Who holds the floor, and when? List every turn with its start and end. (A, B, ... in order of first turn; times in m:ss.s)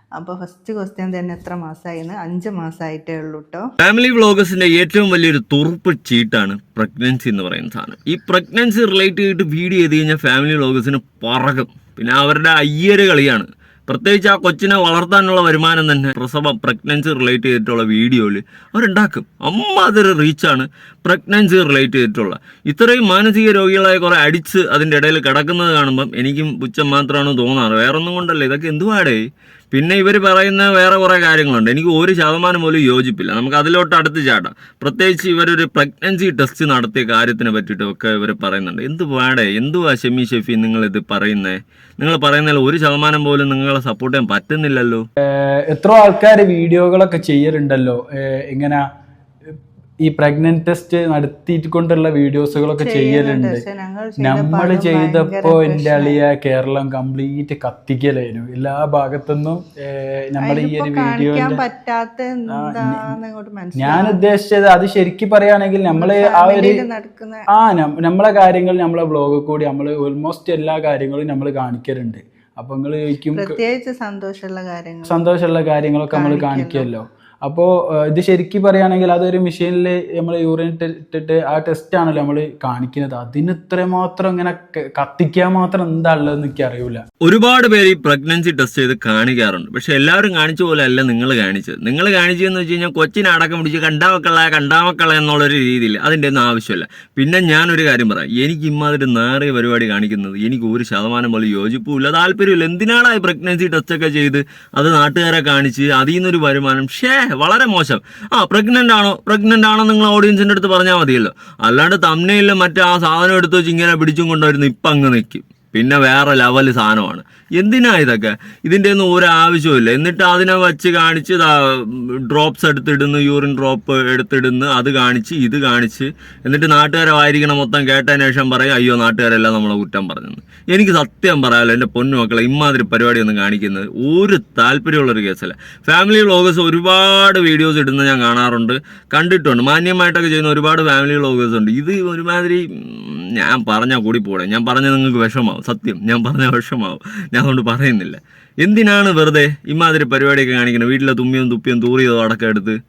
0:00.2-0:03.6 A
0:03.8-0:45.0 B
0:45.3-0:48.8 C
0:50.0-0:53.6 C
0:52.8-0:56.2 A
0:54.2-1:01.6 C
1:00.4-1:04.2 A
1:02.5-1:03.2 C
1:03.8-1:06.8 C
1:05.9-1:07.4 A
1:07.5-1:13.6 C
1:13.3-1:15.2 A
1:15.1-1:27.0 C
1:16.1-1:16.9 A
1:27.2-2:32.8 B